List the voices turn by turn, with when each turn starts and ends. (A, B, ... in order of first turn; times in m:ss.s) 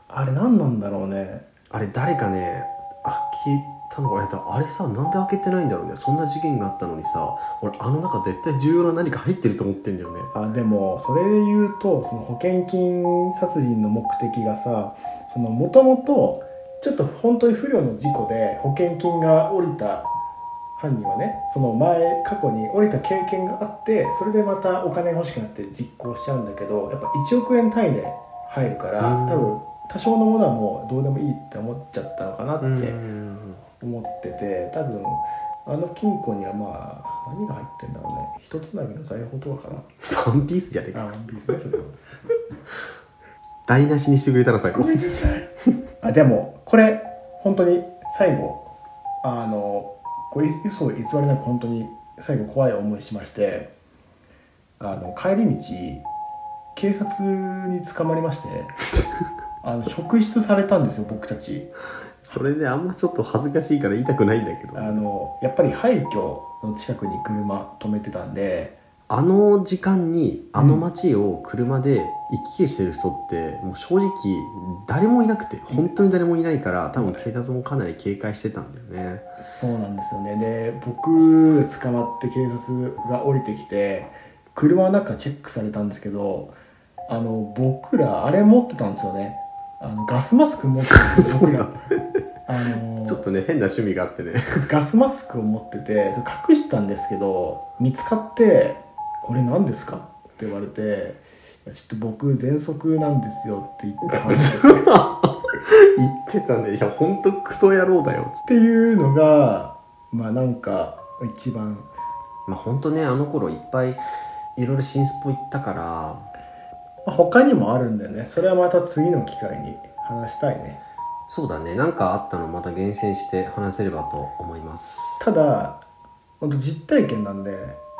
0:00.1-0:01.4 A
0:01.7-0:10.3 B
0:10.3-0:20.1 A
0:20.8-0:33.0 A
0:29.0-0:29.6 B
0:32.6-0:33.6 B
0:33.8-0:39.8 A
0:40.0-0:41.6 B
0:40.9-0:42.0 A
0:43.6-0:45.2 B
0:44.7-0:45.5 A
0:46.0-0:48.7 A
0:49.2-0:53.7 A
0:54.8-0:56.0 A
0:56.7-0:58.8 A
0:59.6-1:01.7 A
1:02.2-1:05.0 B
1:04.7-1:08.8 A
1:09.1-1:19.2 B
1:10.5-1:10.8 A
1:15.7-1:16.2 A
1:16.9-1:17.3 A
1:19.4-1:26.5 A
1:27.1-1:31.8 A
1:31.2-1:32.2 B
1:32.5-1:33.2 A
1:33.0-1:34.7 B
1:34.7-1:44.9 A
1:44.2-1:48.4 B
1:48.4-1:51.9 A
1:52.5-1:54.0 B
1:54.6-1:56.2 B
1:57.0-2:00.8 A
2:01.3-2:05.2 B
2:05.2-2:05.8 A
2:06.4-2:07.8 A